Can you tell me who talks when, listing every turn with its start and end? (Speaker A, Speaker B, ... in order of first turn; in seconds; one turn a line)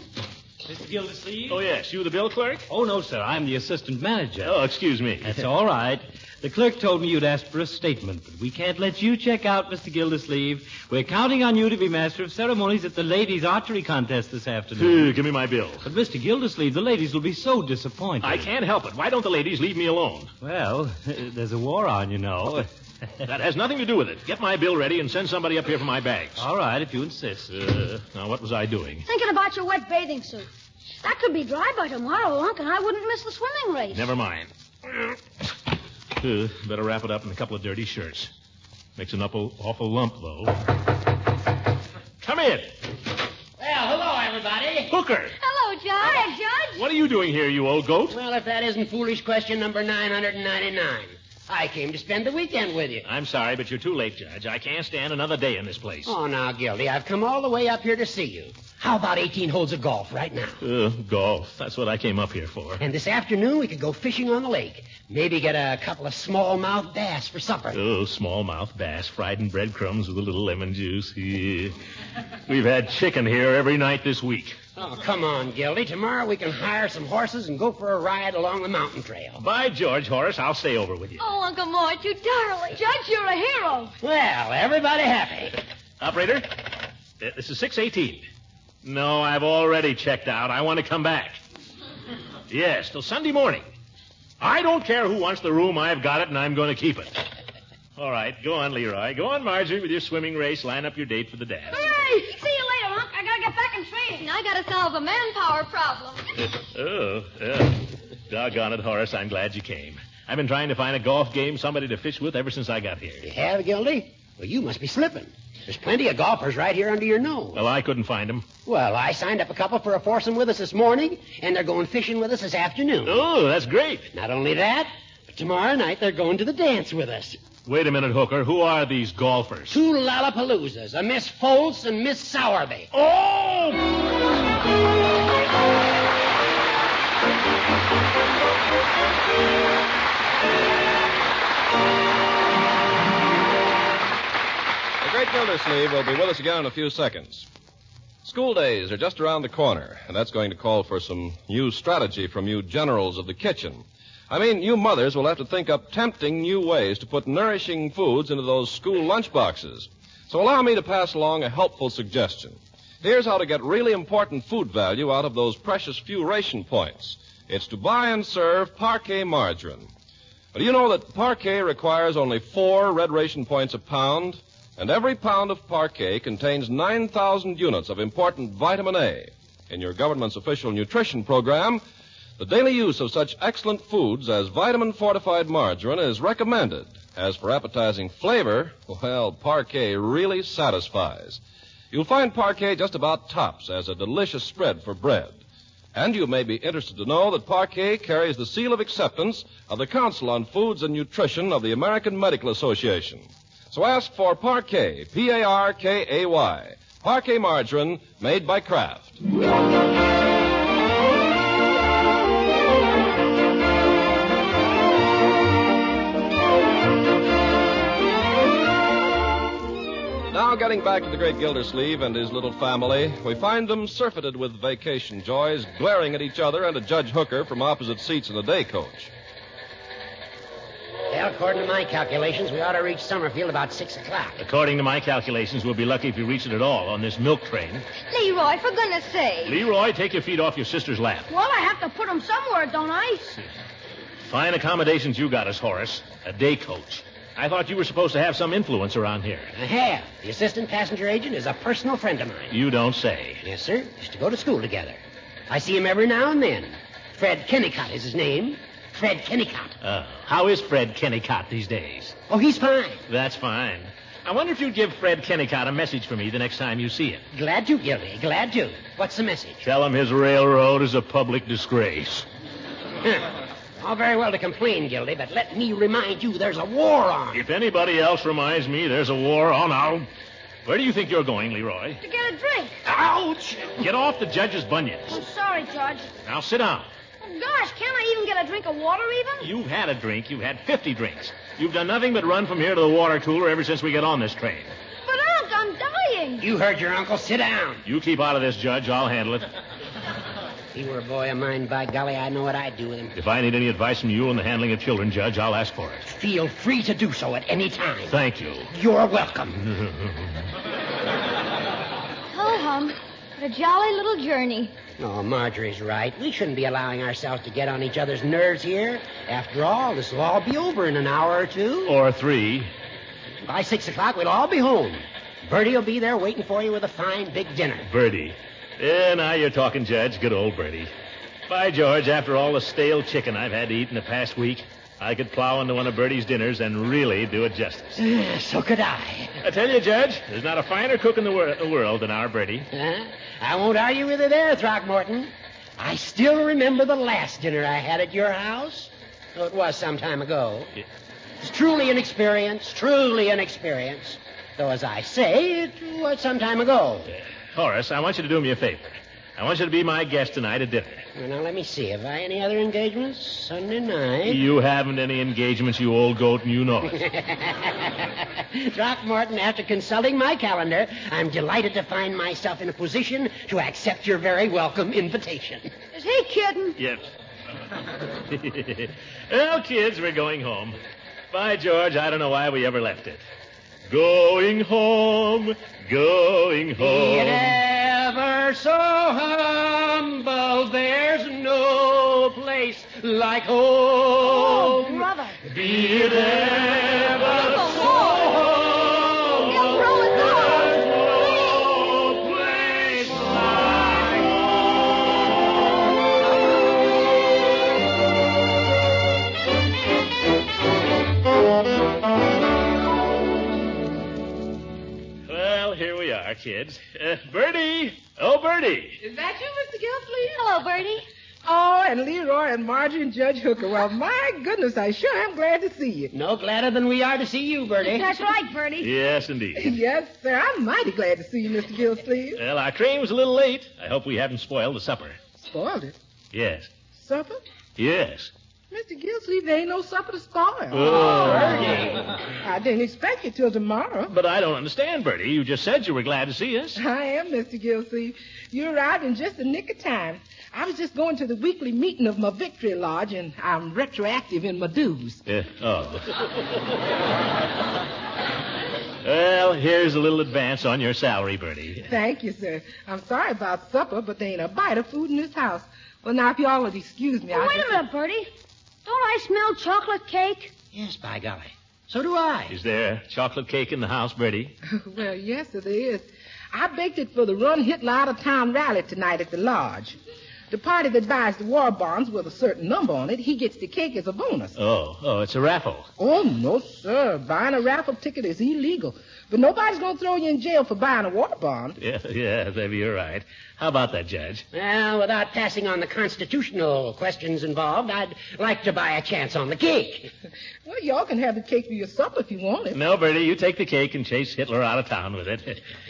Speaker A: 0.7-1.6
Speaker B: 1.5-2.7
Speaker A: 2.7-4.6
Speaker B: 4.4-5.5
Speaker A: 5.2-15.2
Speaker B: 14.8-15.9
Speaker A: 15.8-18.5
Speaker B: 18.2-20.3
Speaker A: 20.4-22.7
Speaker B: 23.2-26.5
Speaker A: 26.4-27.5
Speaker B: 27.5-29.1
Speaker C: 29.1-30.5
Speaker C: 31.0-34.1
Speaker B: 33.9-35.1
Speaker B: 36.2-38.3
Speaker B: 39.0-40.6
Speaker B: 42.2-42.8
Speaker D: 43.6-44.9
Speaker B: 44.9-45.4
Speaker E: 45.4-46.7
Speaker C: 46.0-46.7
Speaker B: 46.8-48.2
Speaker D: 48.1-53.0
Speaker B: 53.0-56.1
Speaker D: 56.1-60.6
Speaker B: 60.6-62.8
Speaker D: 62.8-67.8
Speaker B: 67.7-71.8
Speaker B: 72.5-74.6
Speaker D: 74.8-79.4
Speaker B: 79.4-81.2
Speaker E: 81.2-82.8
Speaker C: 82.7-84.0
Speaker D: 84.0-85.6
Speaker B: 86.0-86.5
Speaker B: 87.2-88.3
Speaker B: 88.8-91.4
Speaker B: 92.5-93.7
Speaker B: 94.4-97.2
Speaker B: 98.0-101.8
Speaker C: 101.7-104.3
Speaker E: 104.2-106.2
Speaker B: 106.4-113.3
Speaker D: 113.2-117.6
Speaker B: 117.5-118.5
Speaker D: 118.7-123.2
Speaker B: 123.0-124.1
Speaker D: 124.1-127.4
Speaker B: 127.7-129.8
Speaker D: 129.7-132.9
Speaker B: 132.9-133.9
Speaker F: 145.0-147.5
Speaker F: 148.2-169.9
Speaker F: 170.5-181.8
Speaker F: 182.4-195.4
Speaker F: 195.9-209.2
Speaker F: 220.3-229.1
Speaker D: 231.1-234.4
Speaker B: 234.4-237.9
Speaker E: 238.1-239.6
Speaker B: 239.4-241.3
Speaker C: 241.3-243.4
Speaker B: 244.2-249.5
Speaker D: 249.6-252.6
Speaker B: 252.5-253.4
Speaker D: 253.4-259.8
Speaker B: 259.8-262.2
Speaker D: 262.3-263.0
Speaker B: 263.1-267.2
Speaker D: 267.3-269.6
Speaker B: 269.6-272.3
Speaker D: 273.0-277.4
Speaker B: 277.3-280.1
Speaker B: 280.6-282.0
Speaker C: 282.0-282.8
Speaker B: 283.0-285.2
Speaker C: 285.1-286.1
Speaker B: 286.2-286.9
Speaker C: 287.2-289.5
Speaker B: 289.4-294.7
Speaker C: 295.1-296.4
Speaker D: 296.4-297.8
Speaker B: 297.9-299.5
Speaker D: 300.7-303.1
Speaker B: 303.1-306.1
Speaker D: 306.1-308.1
Speaker B: 308.1-308.7
Speaker D: 308.7-309.6
Speaker B: 309.6-310.4
Speaker E: 312.3-314.7
Speaker D: 315.0-321.9
Speaker B: 321.9-322.7
Speaker D: 323.4-327.9
Speaker B: 327.9-330.9
Speaker B: 331.5-338.0
Speaker D: 338.0-339.4
Speaker B: 339.4-342.7
Speaker D: 342.7-350.7
Speaker D: 351.4-357.1
Speaker B: 357.1-361.1
Speaker D: 361.2-364.4
Speaker B: 364.3-367.1
Speaker D: 366.9-375.7
Speaker C: 375.9-376.8
Speaker B: 376.8-377.1
Speaker B: 378.1-380.8
Speaker B: 381.3-383.2
Speaker B: 383.9-387.6
Speaker D: 386.8-395.1
Speaker C: 394.3-395.4
Speaker B: 395.5-397.8
Speaker E: 397.4-398.4
Speaker D: 398.3-398.6
Speaker E: 399.4-400.8
Speaker B: 400.2-404.4
Speaker B: 415.3-419.0
Speaker G: 419.0-420.4
Speaker E: 420.3-421.0
Speaker G: 421.4-426.1
Speaker D: 426.1-428.1
Speaker C: 427.8-428.9
Speaker B: 428.8-429.8
Speaker G: 429.6-432.4
Speaker B: 432.4-435.2
Speaker G: 435.4-435.9
Speaker B: 436.3-436.7
Speaker G: 436.9-437.4
Speaker B: 437.8-438.3
Speaker G: 438.7-444.1
Speaker B: 440.7-442.0
Speaker D: 441.0-441.8
Speaker B: 444.1-446.8
Speaker G: 446.8-455.2
Speaker B: 455.3-456.3
Speaker B: 459.0-461.9
Speaker G: 461.9-467.8
Speaker C: 467.3-468.3
Speaker C: 468.9-470.5
Speaker D: 470.7-472.5
Speaker B: 472.5-474.6
Speaker G: 474.7-480.0
Speaker G: 480.5-484.6
Speaker B: 484.6-485.9
Speaker G: 486.0-491.8
Speaker B: 491.8-494.4
Speaker D: 494.5-500.1
Speaker G: 500.6-502.8
Speaker B: 502.7-505.6